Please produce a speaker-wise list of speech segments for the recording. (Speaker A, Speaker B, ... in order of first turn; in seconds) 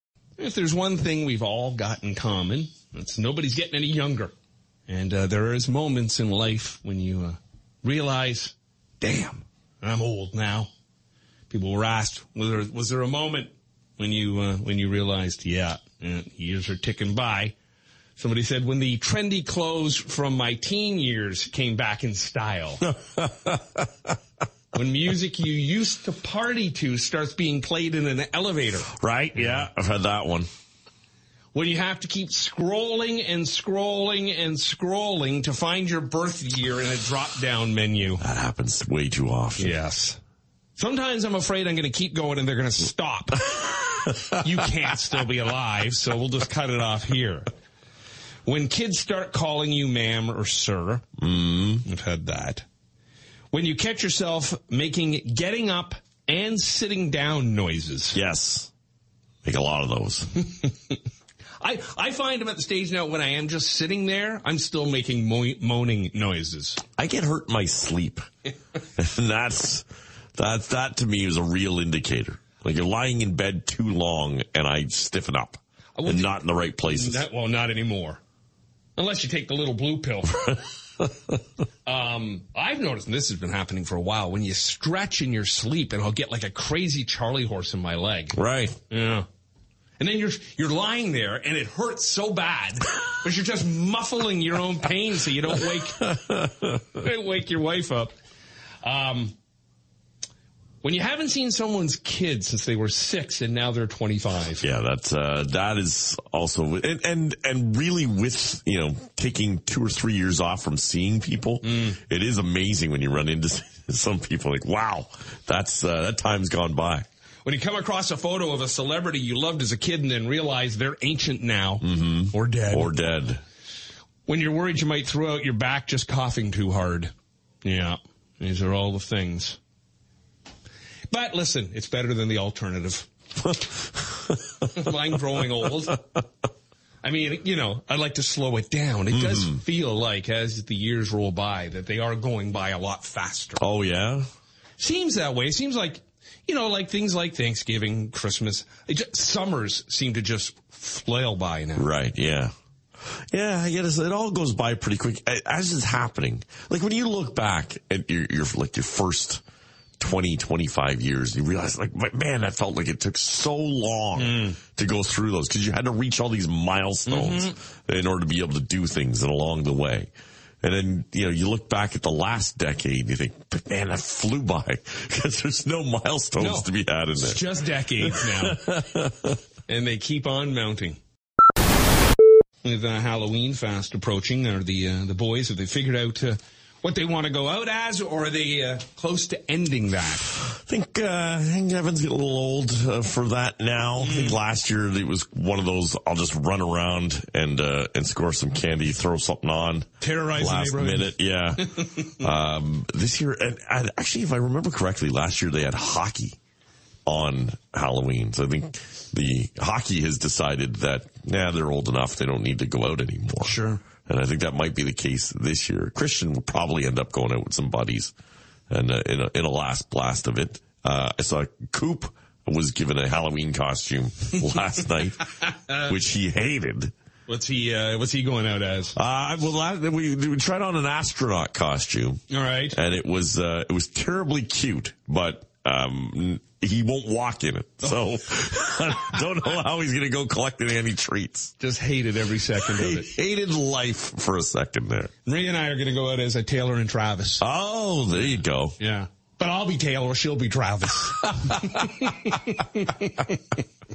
Speaker A: 0.4-4.3, 4.9-10.7, 11.5-17.6, 18.2-22.9, 24.7-28.9, 31.5-38.2, 39.6-40.2, 40.8-43.7, 44.3-47.5, 48.4-51.0, 51.8-52.6, 53.5-58.2, 61.6-66.8, 76.0-78.2, 79.0-80.6, 81.8-88.4, 88.9-89.3, 90.0-96.2, 96.9-98.1, 98.8-99.3, 100.8-104.6, 111.6-112.0, 117.4-122.9, 124.3-129.6, 131.1-133.1, 134.7-136.1, 137.0-143.6, 144.8-151.9, 164.2-164.6, 167.1-167.5, 176.4-178.6, 179.7-181.0, 182.6-190.3, 194.0-194.4, 200.0-202.1, 213.4-213.8, 225.5-225.9, 227.3-228.9, 232.3-232.8, 241.6-243.1, 245.2-247.4, 248.8-253.4
Speaker B: 22.9-23.9, 28.9-30.5, 38.2-39.8, 51.2-51.8, 58.1-58.7, 59.4-60.4, 67.0-68.2, 69.0-77.2, 88.3-88.8, 96.0-96.8, 104.6-117.0, 121.8-123.4, 133.4-134.9, 139.1-139.6, 143.6-144.3, 151.8-152.5, 153.1-159.4, 160.0-170.1, 170.6-179.4, 190.4-206.4, 207.1-218.1, 218.7-226.9, 228.9-232.2, 232.7-241.5, 242.6-245.1, 247.4-248.8